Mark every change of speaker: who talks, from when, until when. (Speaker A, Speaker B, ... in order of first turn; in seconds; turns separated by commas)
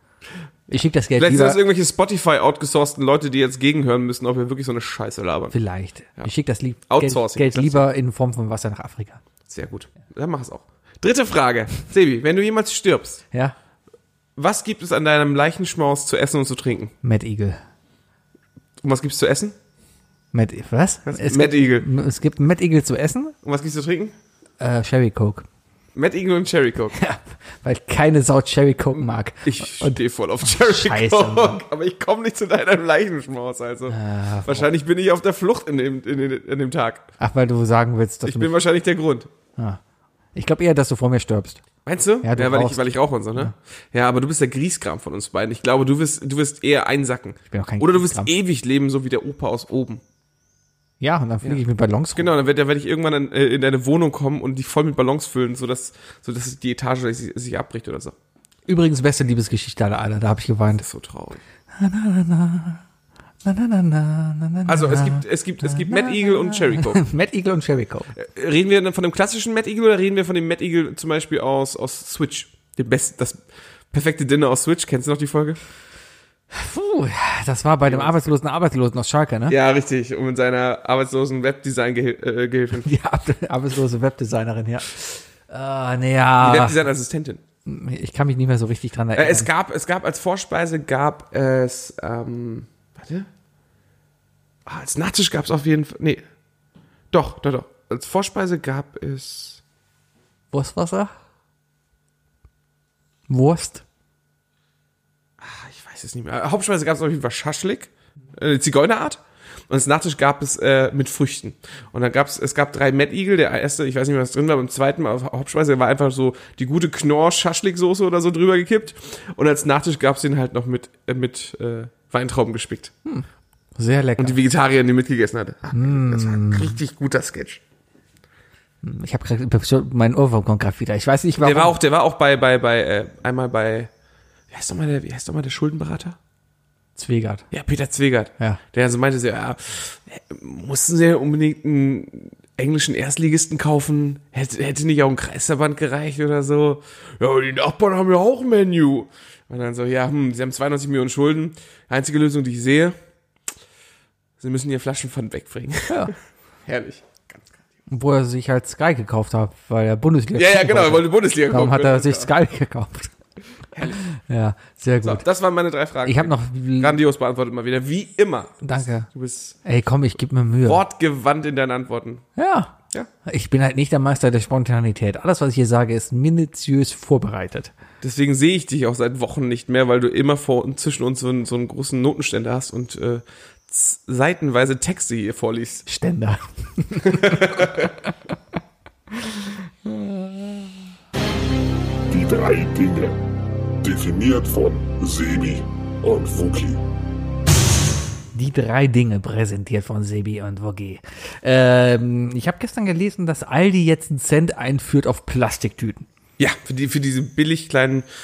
Speaker A: 0.7-5.5, Speaker B: 0.7-1.6, Speaker B: 5.5-9.2, Speaker A: 6.9-7.8, Speaker A: 9.5-13.2, Speaker A: 14.4-16.9, Speaker B: 17.0-17.6, Speaker A: 18.8-19.6, Speaker B: 20.3-23.3, Speaker A: 21.1-21.9, Speaker A: 23.4-24.1, Speaker B: 24.6-25.4, Speaker A: 25.9-26.9, Speaker B: 26.9-31.6, Speaker A: 29.4-37.1, Speaker B: 33.9-34.7, Speaker B: 37.2-38.5, Speaker A: 38.2-39.3, Speaker B: 40.3-41.6, Speaker A: 41.9-50.0, Speaker B: 42.2-43.5, Speaker B: 47.5-48.3, Speaker B: 51.0-52.3, Speaker A: 52.1-58.1, Speaker B: 58.7-60.8, Speaker A: 60.8-61.4, Speaker B: 61.7-62.8, Speaker B: 63.4-68.1, Speaker A: 64.7-67.0, Speaker A: 68.1-75.6, Speaker B: 76.5-79.5, Speaker A: 77.8-78.1, Speaker A: 79.5-82.9, Speaker B: 82.8-86.8, Speaker A: 86.4-87.4, Speaker B: 87.7-89.5, Speaker A: 89.1-93.3, Speaker A: 94.7-96.2, Speaker A: 97.1-99.6, Speaker B: 100.5-101.1, Speaker B: 103.3-103.8, Speaker A: 105.4-122.9, Speaker B: 123.0-124.4, Speaker A: 124.2-127.6, Speaker B: 125.7-126.8, Speaker B: 128.8-131.8, Speaker A: 131.4-133.9, Speaker A: 134.5-136.2, Speaker B: 136.9-137.4, Speaker A: 137.5-153.0, Speaker A: 154.4-156.1, Speaker A: 156.7-157.5, Speaker B: 157.9-163.1, Speaker A: 160.3-162.3, Speaker A: 163.7-164.0, Speaker B: 163.9-165.2, Speaker A: 165.0-169.6, Speaker B: 166.0-167.0, Speaker B: 168.6-169.1, Speaker B: 169.6-170.8, Speaker A: 170.6-172.2, Speaker B: 172.3-177.7, Speaker A: 178.0-185.9, Speaker B: 185.9-187.9, Speaker A: 187.0-187.9, Speaker B: 189.2-190.7, Speaker C: 192.1-193.2, Speaker C: 193.8-196.8, Speaker B: 198.3-206.1, Speaker A: 206.4-208.1